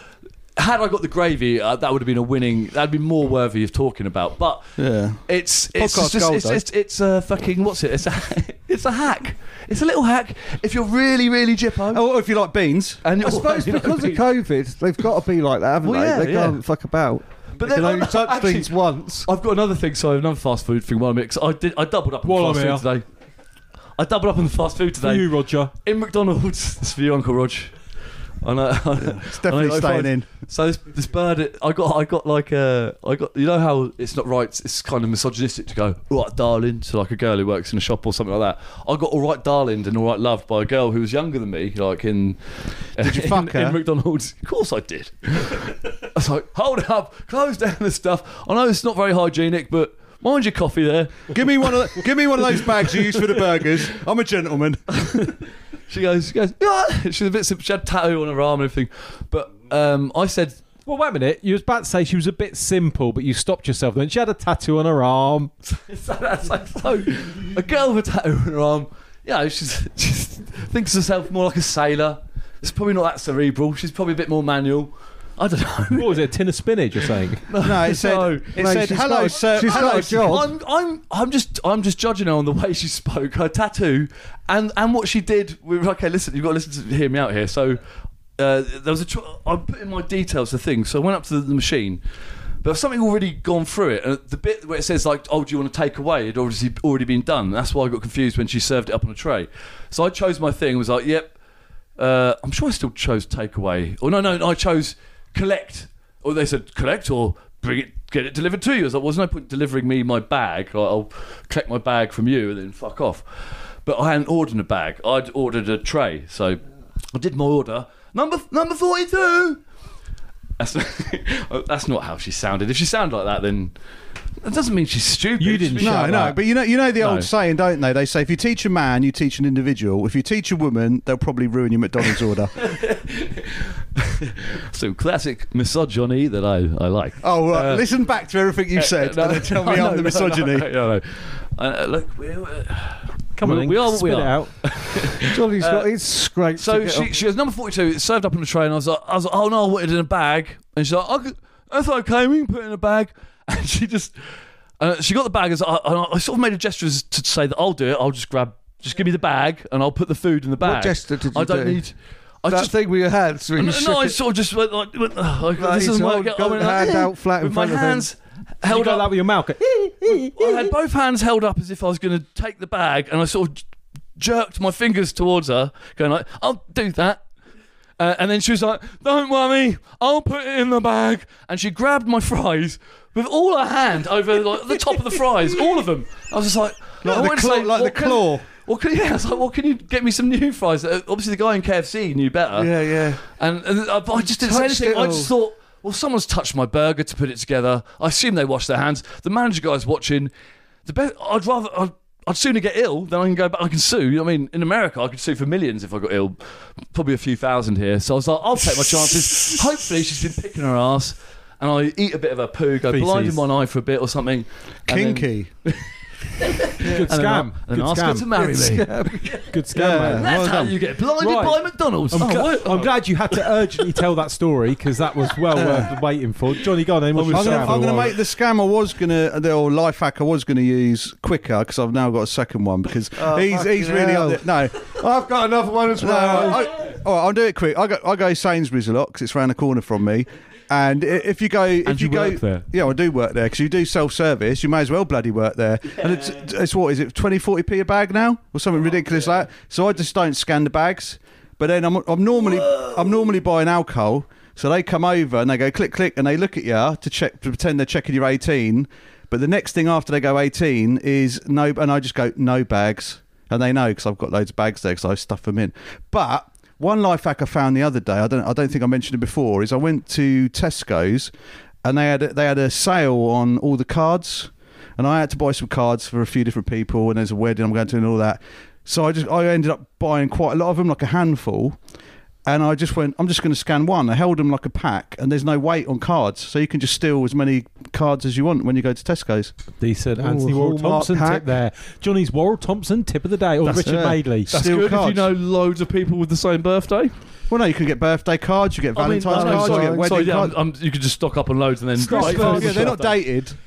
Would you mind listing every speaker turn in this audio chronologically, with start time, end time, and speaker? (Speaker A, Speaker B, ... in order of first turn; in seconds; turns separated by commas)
Speaker A: 0.6-12.0, Speaker B: 4.8-5.2, Speaker B: 5.7-6.6, Speaker B: 11.9-13.0, Speaker A: 13.0-14.2, Speaker C: 13.2-19.3, Speaker A: 15.8-16.6, Speaker A: 17.6-23.0, Speaker D: 22.2-22.8, Speaker A: 24.0-27.8, Speaker D: 25.0-25.7, Speaker A: 28.4-42.4, Speaker B: 29.0-30.3, Speaker A: 42.9-52.0, Speaker B: 43.0-43.8, Speaker B: 51.3-55.3, Speaker A: 52.6-53.0, Speaker A: 55.0-55.4, Speaker A: 55.9-60.6, Speaker D: 60.9-65.5, Speaker A: 65.7-76.2, Speaker D: 75.9-77.4, Speaker A: 77.0-78.6, Speaker B: 77.6-80.4, Speaker C: 78.5-80.5, Speaker A: 79.3-87.8, Speaker A: 88.4-92.0, Speaker A: 92.6-101.3, Speaker A: 102.0-113.2, Speaker A: 113.8-116.6, Speaker A: 117.1-119.6, Speaker A: 120.6-123.7, Speaker A: 124.4-126.3, Speaker D: 125.4-126.4, Speaker B: 125.8-132.6, Speaker A: 127.0-127.3, Speaker A: 132.6-137.9, Speaker B: 137.2-140.7, Speaker A: 138.8-145.9, Speaker D: 143.4-144.5, Speaker C: 145.2-147.2, Speaker A: 146.6-154.2, Speaker A: 154.8-162.7, Speaker C: 160.6-161.8, Speaker C: 162.5-164.2, Speaker A: 163.6-169.1, Speaker C: 165.6-168.1, Speaker D: 168.6-170.7, Speaker A: 170.1-173.6, Speaker A: 174.2-177.2, Speaker A: 178.0-200.3, Speaker B: 187.0-188.4, Speaker C: 192.6-193.2, Speaker C: 194.2-195.3, Speaker A: 200.8-206.4, Speaker A: 206.9-215.8, Speaker D: 212.9-213.4, Speaker B: 214.9-215.5, Speaker A: 216.4-224.0, Speaker C: 216.8-217.1, Speaker D: 216.8-218.3, Speaker C: 218.3-219.5, Speaker D: 219.5-220.3, Speaker B: 219.7-220.8, Speaker D: 221.2-221.6, Speaker D: 222.1-228.1, Speaker A: 225.5-225.9, Speaker B: 225.6-225.8, Speaker A: 227.1-227.9, Speaker B: 227.1-234.9, Speaker C: 233.1-236.7, Speaker B: 236.0-271.3, Speaker A: 241.8-242.7, Speaker A: 252.6-252.9, Speaker B: 271.8-281.8, Speaker B: 282.4-289.5, Speaker D: 289.8-294.5, Speaker C: 290.2-291.5, Speaker B: 293.6-295.3, Speaker C: 293.8-294.1, Speaker A: 293.9-297.1, Speaker B: 297.5-300.5, Speaker A: 298.9-303.1, Speaker C: 299.3-300.2, Speaker D: 302.0-303.0, Speaker B: 302.0-303.6